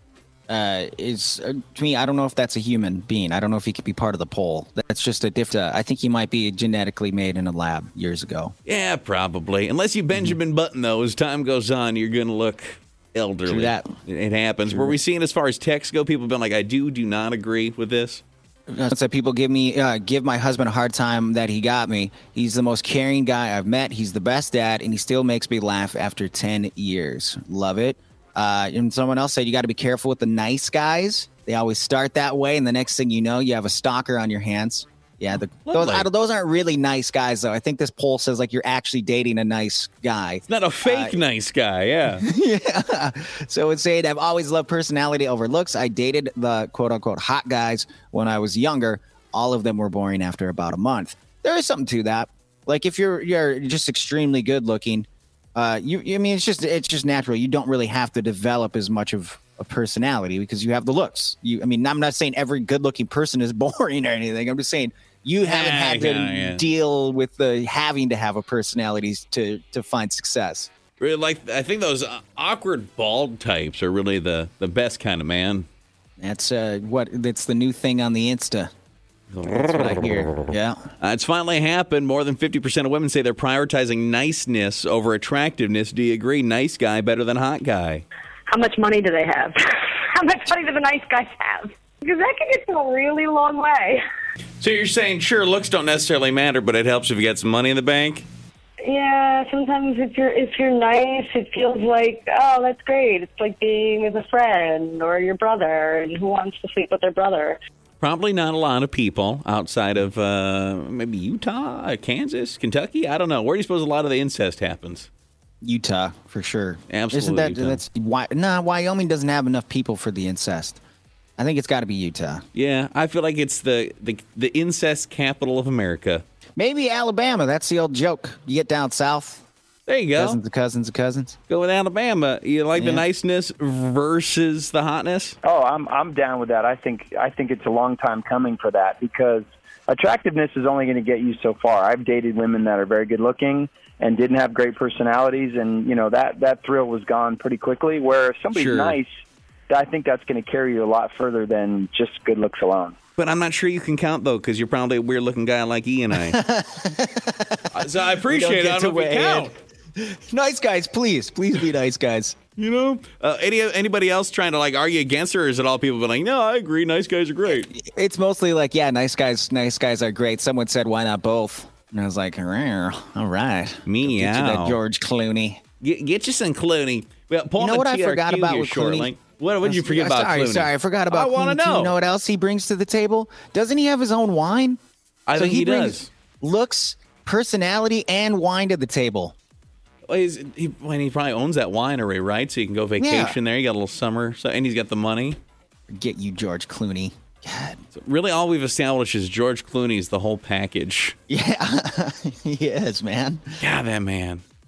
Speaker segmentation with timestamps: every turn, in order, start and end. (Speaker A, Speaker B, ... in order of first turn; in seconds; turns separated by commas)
Speaker A: 0.5-8.5, Speaker B: 8.6-18.2, Speaker A: 13.4-13.9, Speaker A: 18.7-41.2, Speaker B: 35.7-36.1, Speaker B: 40.5-42.2, Speaker A: 42.2-70.7, Speaker B: 65.4-66.6, Speaker B: 71.0-75.7, Speaker A: 76.2-78.7, Speaker B: 79.3-80.1, Speaker A: 79.6-80.8, Speaker B: 81.0-88.0, Speaker C: 88.5-94.0, Speaker B: 94.6-98.2, Speaker C: 98.8-107.6, Speaker B: 108.0-115.1, Speaker A: 115.6-120.8, Speaker B: 116.9-117.8, Speaker A: 121.4-122.4, Speaker B: 122.5-126.2, Speaker A: 126.6-129.4, Speaker B: 129.9-130.4, Speaker A: 130.2-131.4, Speaker B: 131.5-135.4, Speaker A: 132.7-133.0, Speaker D: 135.4-149.2, Speaker B: 148.5-149.0, Speaker D: 149.7-152.9, Speaker B: 153.2-156.4, Speaker A: 156.1-162.4, Speaker B: 157.7-159.5, Speaker B: 162.6-167.7, Speaker A: 167.5-175.6, Speaker B: 173.8-174.8, Speaker B: 175.8-181.9, Speaker A: 177.6-179.1, Speaker A: 179.6-184.8, Speaker B: 185.3-186.1, Speaker A: 185.3-189.3, Speaker B: 190.1-195.4, Speaker A: 193.0-193.4, Speaker A: 195.9-197.8, Speaker B: 197.9-201.2, Speaker A: 201.3-203.6, Speaker B: 203.6-204.4